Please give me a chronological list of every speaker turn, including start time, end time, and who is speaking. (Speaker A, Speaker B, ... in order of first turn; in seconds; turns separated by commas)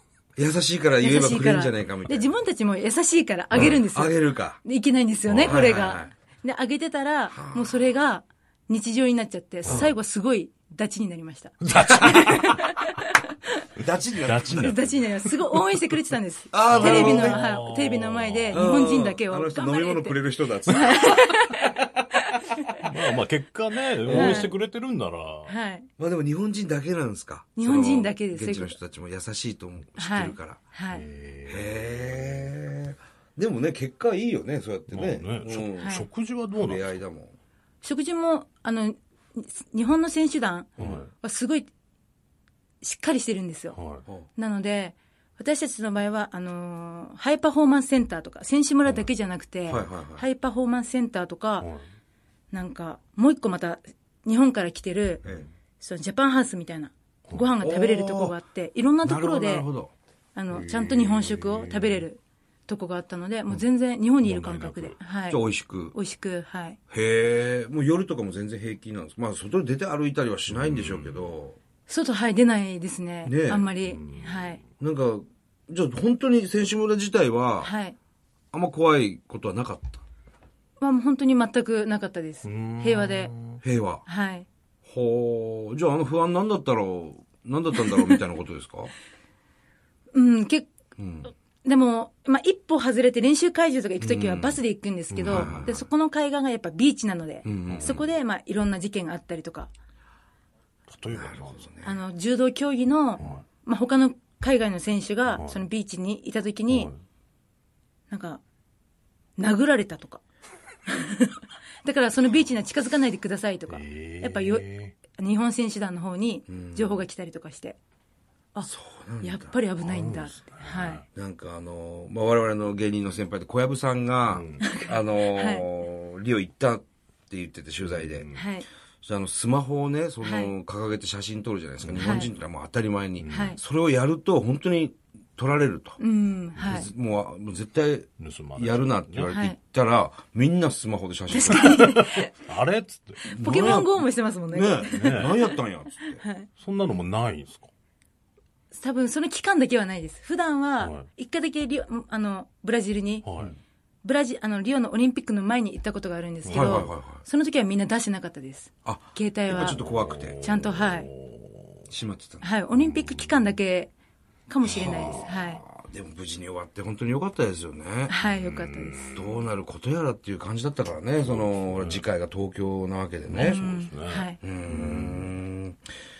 Speaker A: 0.4-2.3, Speaker B: 1.0-13.2, Speaker A: 3.5-4.6, Speaker C: 5.2-5.6, Speaker A: 5.3-6.1, Speaker A: 7.3-7.7, Speaker A: 9.7-9.9, Speaker C: 11.6-12.7, Speaker A: 13.8-14.8, Speaker C: 14.2-15.4, Speaker B: 14.5-21.9, Speaker A: 16.5-17.4, Speaker C: 16.7-18.8, Speaker A: 18.5-21.2, Speaker C: 22.8-25.5, Speaker A: 24.0-24.5, Speaker B: 24.1-24.6, Speaker B: 25.5-25.9, Speaker A: 26.0-30.6, Speaker B: 27.6-28.8, Speaker B: 30.0-31.0, Speaker C: 30.9-32.5, Speaker A: 31.5-37.3, Speaker C: 34.9-37.0, Speaker B: 35.8-36.0, Speaker B: 37.8-41.7, Speaker C: 40.8-41.1, Speaker B: 42.8-43.8, Speaker C: 43.7-44.0, Speaker B: 44.4-51.7, Speaker A: 49.7-50.2, Speaker B: 52.5-55.2, Speaker B: 55.8-59.7, Speaker A: 57.6-58.4, Speaker A: 59.0-59.9, Speaker B: 60.4-65.4, Speaker C: 60.5-62.0, Speaker C: 64.2-65.0, Speaker A: 65.3-66.0, Speaker B: 65.9-66.8, Speaker A: 66.9-71.6, Speaker C: 70.5-71.3, Speaker B: 71.9-74.6, Speaker A: 73.2-73.7, Speaker C: 73.8-74.7, Speaker A: 74.8-77.7, Speaker B: 77.6-78.0, Speaker A: 78.5-80.0, Speaker B: 80.8-83.3, Speaker C: 82.4-83.6, Speaker A: 83.6-84.0, Speaker B: 84.0-84.5, Speaker A: 84.8-88.9, Speaker B: 87.9-88.2, Speaker B: 90.1-90.7, Speaker A: 91.0-91.3, Speaker B: 91.6-99.7, Speaker A: 94.0-94.6, Speaker C: 95.1-95.7, Speaker A: 95.2-95.8, Speaker A: 97.4-98.1, Speaker C: 97.7-98.0, Speaker C: 100.9-101.6, Speaker A: 101.1-102.0, Speaker B: 101.8-106.9, Speaker C: 103.2-103.4, Speaker C: 105.3-105.6, Speaker C: 106.7-107.0, Speaker B: 108.1-108.4, Speaker B: 109.4-110.2, Speaker B: 110.9-117.8, Speaker C: 113.7-114.9, Speaker A: 116.5-117.0, Speaker A: 118.6-119.6, Speaker B: 119.2-121.0, Speaker C: 119.8-121.0, Speaker A: 121.1-128.3, Speaker C: 124.2-124.7, Speaker B: 124.6-125.7, Speaker C: 127.8-128.4, Speaker B: 128.3-128.6, Speaker A: 129.0-136.0, Speaker B: 130.2-130.5, Speaker C: 131.8-132.3, Speaker B: 132.0-132.3, Speaker C: 133.2-133.6, Speaker B: 133.3-133.6, Speaker B: 136.0-136.9, Speaker C: 136.6-136.9, Speaker A: 136.6-141.9, Speaker C: 138.2-139.3, Speaker B: 139.3-139.6, Speaker B: 141.3-142.3, Speaker C: 141.6-143.9, Speaker A: 143.2-146.2, Speaker B: 143.3-146.5, Speaker C: 144.9-145.3, Speaker C: 146.6-147.7, Speaker B: 148.7-153.2, Speaker C: 150.8-151.1, Speaker C: 153.2-153.5, Speaker B: 154.0-159.8, Speaker C: 156.4-156.9, Speaker A: 156.5-157.2, Speaker A: 158.8-160.4, Speaker C: 159.5-161.9, Speaker B: 160.4-161.1, Speaker A: 161.9-162.5, Speaker B: 162.4-163.9, Speaker C: 162.8-163.3, Speaker B: 164.5-165.6, Speaker C: 164.6-165.3, Speaker A: 164.8-168.1, Speaker B: 168.1-169.2, Speaker C: 168.3-169.4, Speaker A: 169.1-173.6, Speaker C: 171.2-172.0, Speaker C: 173.3-175.4, Speaker B: 173.4-174.4, Speaker A: 174.4-175.8